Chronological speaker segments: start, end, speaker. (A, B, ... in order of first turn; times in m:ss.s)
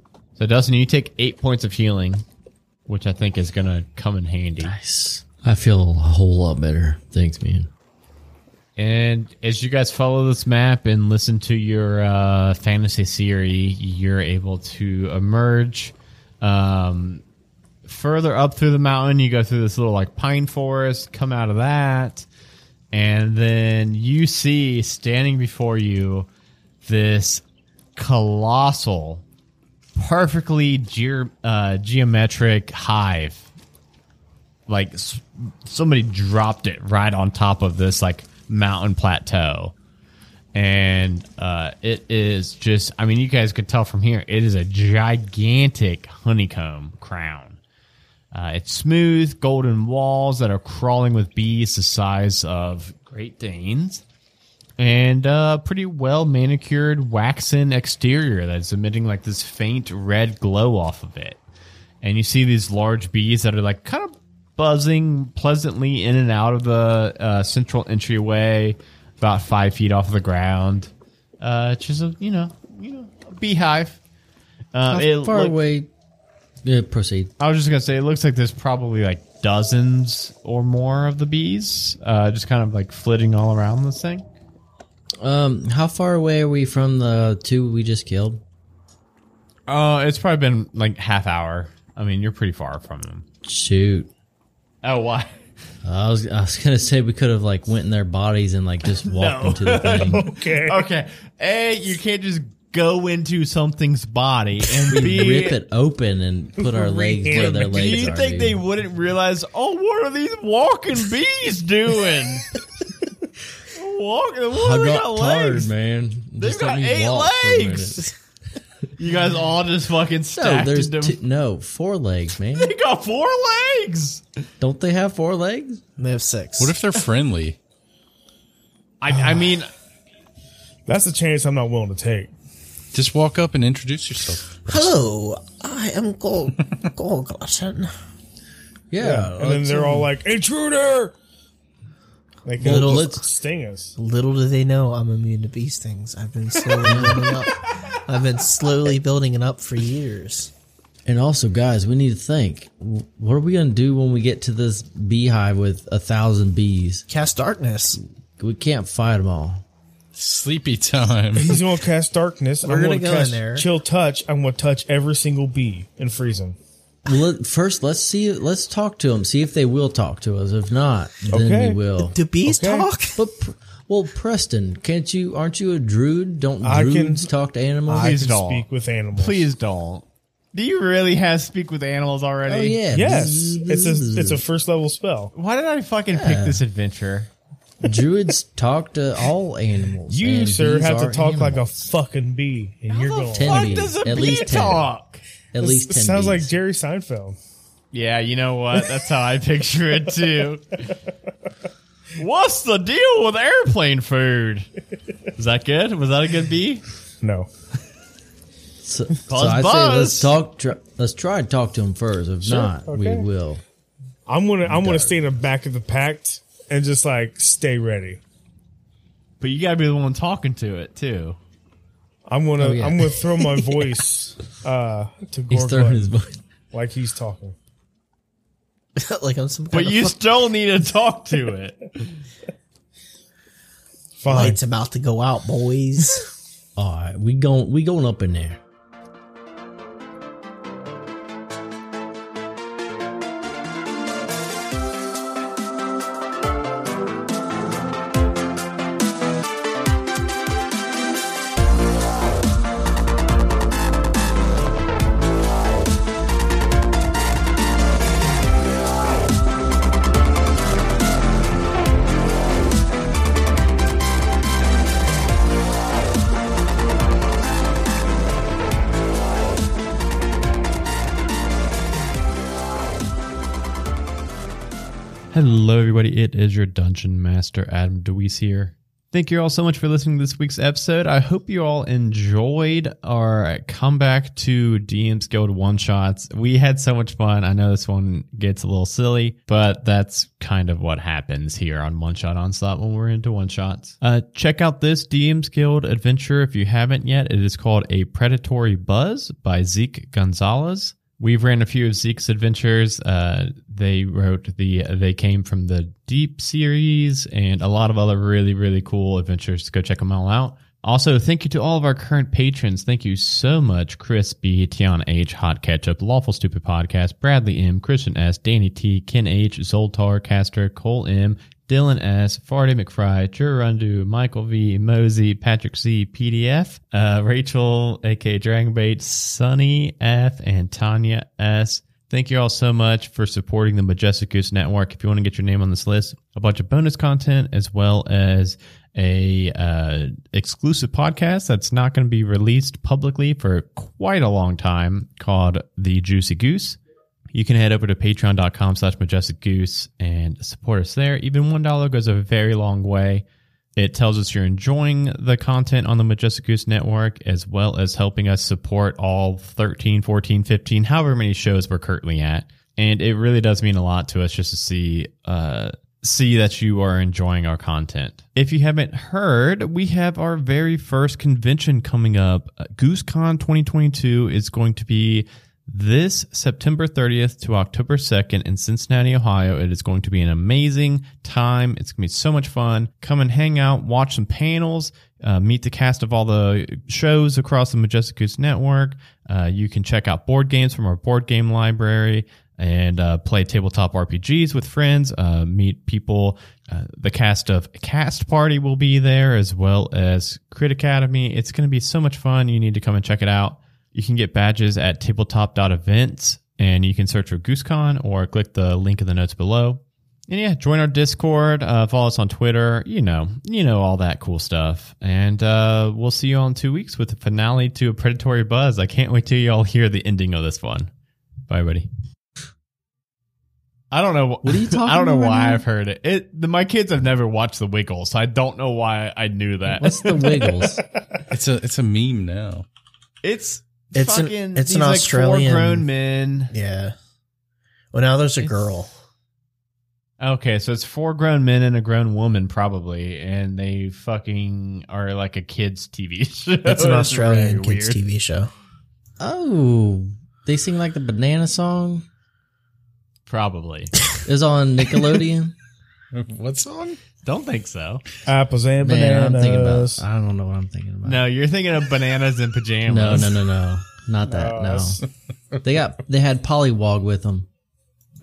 0:00.4-0:02.2 A
0:02.9-0:04.8 A
0:04.6-0:07.7 B
0:08.8-0:17.2 A
0:17.8-0:22.3 A
0:22.9-0:26.3 A
0:26.8-0:27.4 A
0:28.0-0:29.2 A
0:30.0-0:33.5 A
0:34.7-0:39.8 A
0:40.5-0:47.6 A
0:48.3-0:54.0 A
0:54.8-1:01.4 A
1:02.0-1:14.0 A
1:14.7-1:15.6 A
1:14.9-1:15.9 B
1:16.6-1:17.3 B
1:17.4-1:24.3 A
1:25.2-1:28.4 B
1:29.7-1:33.2 A
1:33.4-1:34.1 B
1:34.8-1:35.4 A
1:35.8-1:40.3 B
1:38.9-1:45.6 A
1:40.0-1:40.9 C
1:44.9-1:48.6 B
1:46.6-1:48.1 C
1:47.0-1:52.5 A
1:53.7-1:55.7 A
1:54.5-1:58.1 B
1:56.4-1:58.1 A
1:59.0-2:01.2 A
2:00.3-2:02.7 B
2:02.6-2:04.2 A
2:04.6-2:05.8 B
2:06.0-2:06.8 D
2:06.6-2:07.6 E
2:09.0-2:09.7 A
2:09.1-2:09.4 C
2:10.9-2:12.3 C
2:12.9-2:14.9 E
2:14.7-2:17.9 D
2:18.9-2:20.1 B
2:19.0-2:21.2 C
2:22.5-2:24.0 C
2:22.6-2:23.3 B
2:22.6-2:23.1 D
2:24.0-2:30.5 D
2:26.8-2:27.4 B
2:31.1-2:37.0 B
2:37.1-2:38.0 D
2:38.4-2:39.6 B
2:40.1-2:41.6 E
2:41.4-2:46.6 C
2:42.6-2:43.7 D
2:47.1-2:52.2 B
2:51.3-2:51.8 C
2:52.0-2:53.2 D
2:52.4-2:52.9 C
2:53.1-2:58.2 B
2:56.6-2:57.3 C
2:57.9-2:59.5 C
2:58.0-3:02.8 A
3:02.5-3:04.4 B
3:02.9-3:05.3 C
3:05.4-3:07.3 A
3:06.1-3:06.6 B
3:07.8-3:11.7 B
3:10.1-3:13.9 C
3:12.9-3:15.2 A
3:13.3-3:14.9 B
3:15.5-3:16.5 B
3:15.6-3:17.4 C
3:17.9-3:21.0 A
3:22.2-3:24.7 A
3:25.4-3:26.8 A
3:27.2-3:27.5 C
3:28.8-3:33.6 B
3:29.3-3:30.3 A
3:32.4-3:33.3 C
3:34.3-3:38.2 C
3:34.6-3:35.2 B
3:39.4-3:41.4 A
3:42.3-3:46.1 C
3:42.6-3:43.6 B
3:45.5-3:46.4 B
3:46.7-3:47.6 C
3:49.0-3:50.2 D
3:49.7-3:52.1 A
3:54.2-3:54.6 C
3:54.3-3:56.2 D
3:56.8-3:58.6 B
4:35.3-5:46.8 A
5:47.3-5:53.2 A
5:53.8-7:00.9 A
7:01.5-7:01.9 A
7:03.9-7:10.3 A
7:04.4-7:05.6 B
7:09.8-7:10.8 B
7:11.3-7:12.7 E
7:13.2-7:16.5 A
7:13.9-7:15.9 D
7:16.5-7:17.0 D
7:17.9-7:18.9 D
7:18.4-7:18.8 A
7:20.2-7:28.0 A
7:26.6-7:28.5 D
7:29.2-7:32.0 B
7:33.3-7:34.0 A
7:34.2-7:35.6 B
7:36.1-7:37.0 E
7:37.2-7:38.0 A
7:38.3-7:40.0 C
7:38.8-7:41.2 B
7:41.0-7:43.4 A
7:42.9-7:45.0 B
7:44.2-7:45.0 C
7:45.6-7:47.5 B